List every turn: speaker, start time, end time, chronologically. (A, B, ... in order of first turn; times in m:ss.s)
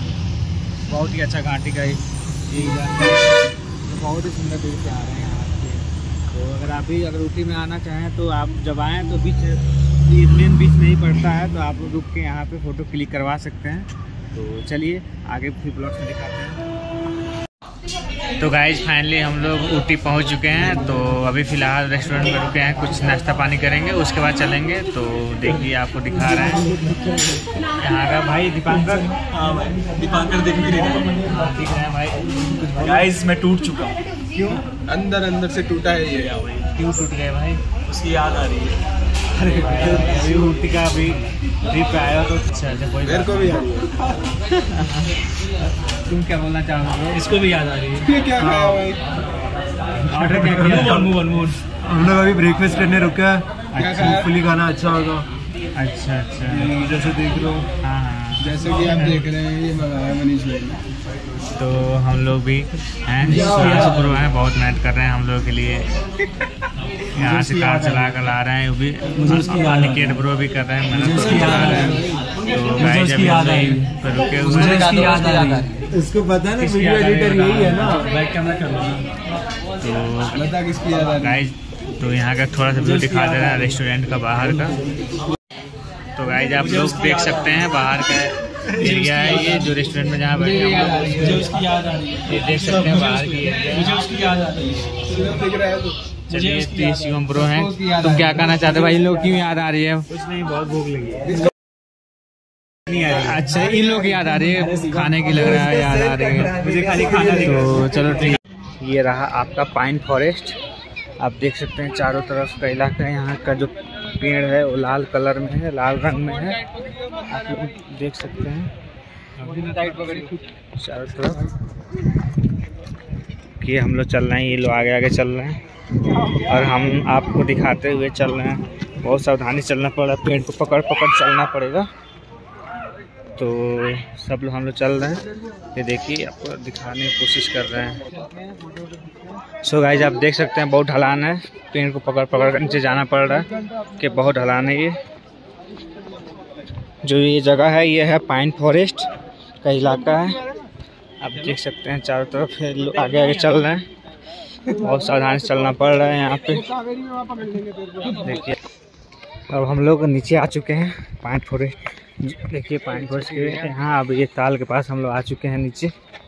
0:00.9-0:16.6 A
0:18.4-0:26.7 A
0:27.8-0:29.1 A
0:28.8-0:31.3 B
0:31.2-0:33.1 A
0:32.8-0:34.0 B
0:34.3-0:34.6 A
0:34.9-0:36.3 C
0:36.1-0:36.7 B
0:36.8-0:37.6 A
0:37.9-0:38.8 B
0:39.4-0:43.6 A
0:39.4-0:40.4 B
0:43.1-0:44.0 C
0:44.5-0:45.0 A
0:46.1-0:47.3 A
0:47.1-0:48.1 B
0:48.0-0:49.0 C
0:48.4-0:48.8 A
0:50.1-0:51.1 A
0:50.2-0:51.6 B
0:50.3-0:51.0 D
0:51.8-0:55.3 D
0:53.7-0:54.2 A
0:53.8-0:54.3 C
0:55.8-0:56.7 A
0:56.5-0:57.7 D
0:57.8-0:59.2 A
0:58.4-1:00.8 C
1:01.6-1:05.9 A
1:03.2-1:04.2 B
1:07.1-1:15.5 A
1:07.2-1:08.2 B
1:09.2-1:10.2 B
1:10.9-1:12.1 B
1:11.5-1:12.1 C
1:12.7-1:15.8 B
1:15.9-1:18.1 D
1:16.6-1:18.1 A
1:18.0-1:19.1 B
1:19.8-1:20.5 A
1:20.3-1:21.4 C
1:21.2-1:24.8 A
1:22.8-1:23.8 B
1:26.2-1:31.5 A
1:26.6-1:27.7 B
1:28.7-1:29.8 B
1:30.6-1:31.4 C
1:31.1-1:35.3 B
1:32.3-1:34.0 A
1:35.0-1:36.0 C
1:36.3-1:37.5 B
1:36.3-1:40.2 A
1:42.9-1:50.6 A
1:44.6-1:45.1 B
1:46.6-1:47.7 D
1:51.2-1:56.6 A
1:57.3-1:58.7 A
1:59.4-2:01.4 A
2:03.6-2:05.6 A
2:06.5-2:11.9 A
2:13.4-2:18.0 A
2:19.6-2:25.0 A
2:27.0-2:29.1 A
2:29.6-2:30.4 A
2:31.2-2:33.8 A
2:34.7-2:36.7 A
2:37.0-2:38.1 C
2:38.1-2:38.6 A
2:39.5-2:45.9 A